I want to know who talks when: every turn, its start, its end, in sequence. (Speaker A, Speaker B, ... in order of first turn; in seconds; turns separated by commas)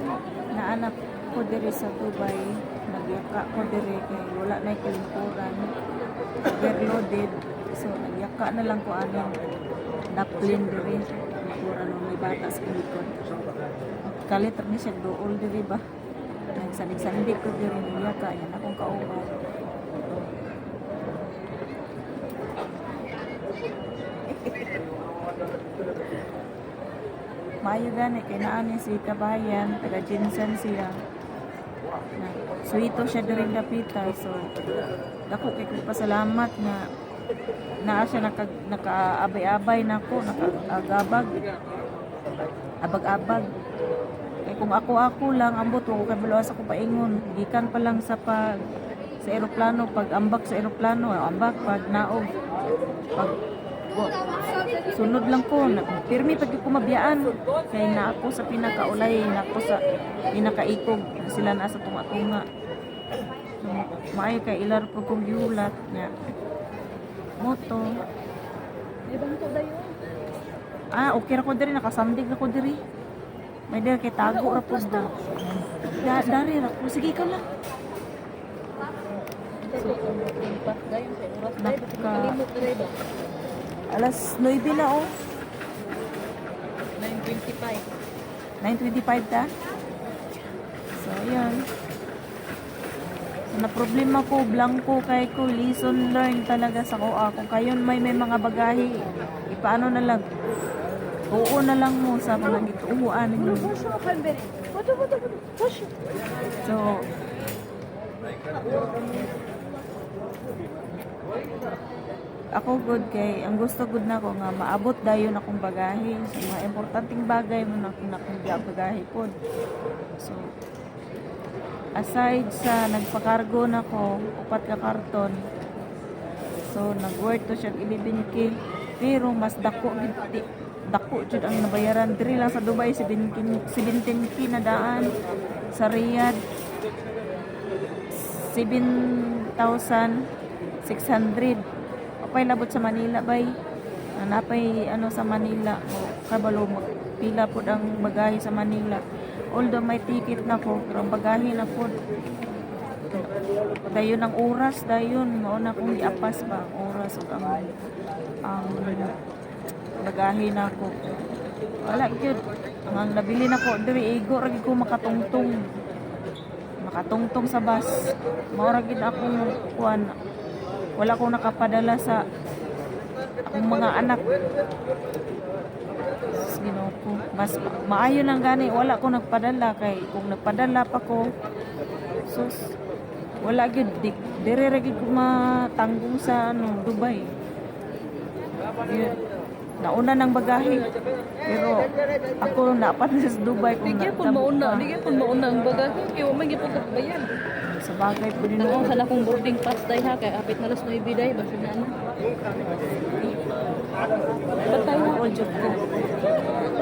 Speaker A: 0.6-5.7, Speaker A: 6.5-9.3, Speaker A: 10.2-13.1, Speaker A: 14.2-15.8, Speaker A: 16.6-19.3, Speaker A: 24.3-24.7, Speaker A: 27.6-30.9, Speaker A: 32.2-34.4, Speaker A: 35.3-36.8, Speaker A: 37.9-41.3, Speaker A: 42.8-43.4, Speaker A: 44.5-48.4, Speaker A: 49.2-52.3, Speaker A: 54.9-59.8, Speaker A: 60.3-62.4, Speaker A: 63.6-66.1, Speaker A: 67.4-67.8, Speaker B: 69.1-69.9, Speaker A: 70.9-72.8, Speaker A: 73.7-75.1, Speaker B: 74.2-75.2, Speaker A: 75.9-77.4, Speaker B: 75.9-76.4, Speaker B: 79.6-82.9, Speaker A: 81.6-82.3, Speaker A: 83.9-85.0, Speaker B: 87.0-87.9, Speaker A: 88.6-89.4, Speaker A: 91.0-91.6, Speaker A: 93.5-98.9, Speaker A: 99.5-100.2, Speaker A: 101.3-103.8, Speaker B: 103.6-105.9, Speaker A: 106.6-107.0, Speaker A: 112.6-119.3, Speaker A: 122.0-125.4, Speaker A: 126.7-128.5, Speaker A: 129.0-130.4, Speaker A: 130.9-135.1, Speaker A: 135.8-136.4, Speaker A: 138.4-138.9, Speaker A: 139.6-140.1, Speaker A: 140.9-141.6, Speaker A: 142.2-143.5, Speaker A: 144.2-149.0, Speaker A: 149.6-151.9, Speaker A: 153.9-157.7, Speaker A: 158.5-159.1, Speaker A: 160.1-160.9, Speaker A: 161.9-165.6, Speaker A: 166.9-170.1, Speaker A: 171.0-172.2, Speaker A: 173.5-174.2, Speaker A: 176.4-181.2, Speaker A: 182.3-182.7, Speaker A: 183.4-187.2, Speaker A: 188.8-189.1, Speaker A: 189.8-190.8, Speaker A: 191.5-191.9, Speaker A: 192.4-194.8, Speaker B: 193.8-197.3, Speaker A: 197.8-198.9, Speaker B: 198.6-201.9, Speaker B: 204.7-205.9, Speaker A: 204.8-205.8